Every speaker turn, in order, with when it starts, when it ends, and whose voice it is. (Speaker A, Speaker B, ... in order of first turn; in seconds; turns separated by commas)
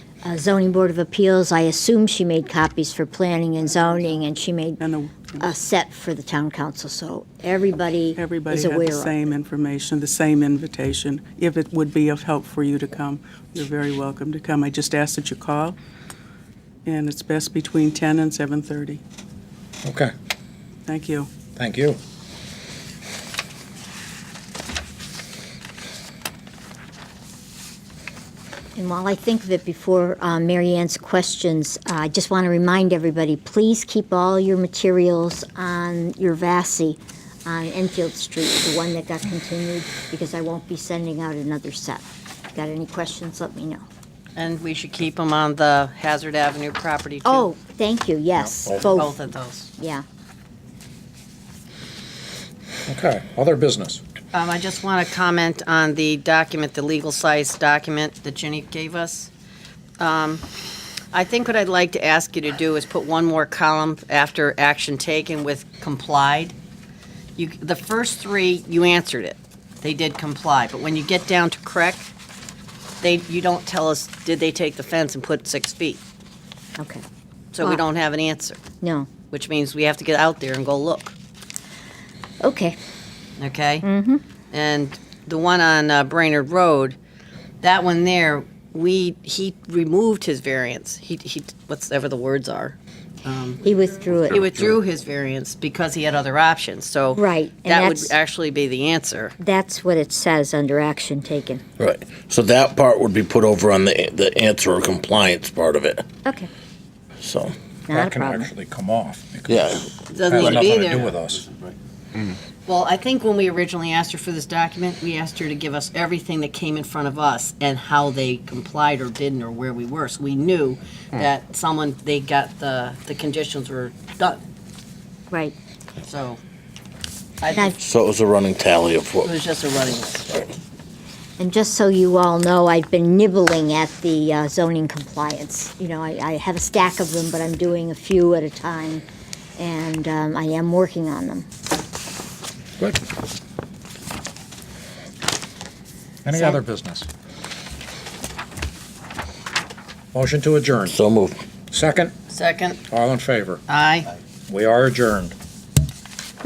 Speaker A: 0.2-4.8, Speaker B: 4.8-5.5, Speaker A: 5.4-9.2, Speaker B: 8.2-15.8, Speaker B: 16.9-19.0, Speaker C: 19.8-20.1, Speaker B: 20.9-21.3, Speaker C: 21.6-22.0, Speaker A: 28.8-43.9, Speaker D: 44.4-47.5, Speaker A: 47.2-49.1, Speaker C: 48.4-49.0, Speaker D: 48.7-49.7, Speaker A: 49.8-50.0, Speaker C: 52.9-54.0, Speaker D: 54.3-59.3, Speaker D: 60.0-60.5, Speaker D: 61.1-66.5, Speaker D: 67.4-72.1, Speaker D: 73.0-76.0, Speaker A: 76.8-77.0, Speaker D: 77.5-78.6, Speaker A: 78.8-79.1, Speaker D: 79.3-81.2, Speaker A: 82.4-82.8, Speaker D: 83.4-83.9, Speaker A: 83.8-84.2, Speaker D: 84.5-87.0, Speaker D: 87.6-93.6, Speaker A: 93.6-94.4, Speaker D: 94.3-99.4, Speaker E: 94.3-94.8, Speaker A: 97.2-98.2, Speaker A: 99.4-101.6, Speaker E: 101.8-106.0, Speaker A: 106.2-106.5, Speaker E: 107.2-107.5, Speaker A: 107.9-108.5, Speaker C: 107.9-111.5, Speaker E: 109.5-110.0, Speaker D: 110.1-111.1, Speaker D: 112.7-124.4, Speaker D: 126.0-126.4, Speaker D: 127.4-127.8, Speaker E: 127.8-129.3, Speaker D: 129.2-130.5, Speaker A: 131.4-139.0, Speaker A: 139.6-141.5, Speaker C: 142.8-143.1, Speaker C: 146.2-147.1, Speaker C: 150.1-150.9, Speaker E: 150.9-151.4, Speaker C: 151.7-152.1, Speaker D: 152.3-152.8, Speaker C: 152.9-153.6, Speaker D: 153.7-154.1, Speaker C: 154.5-155.3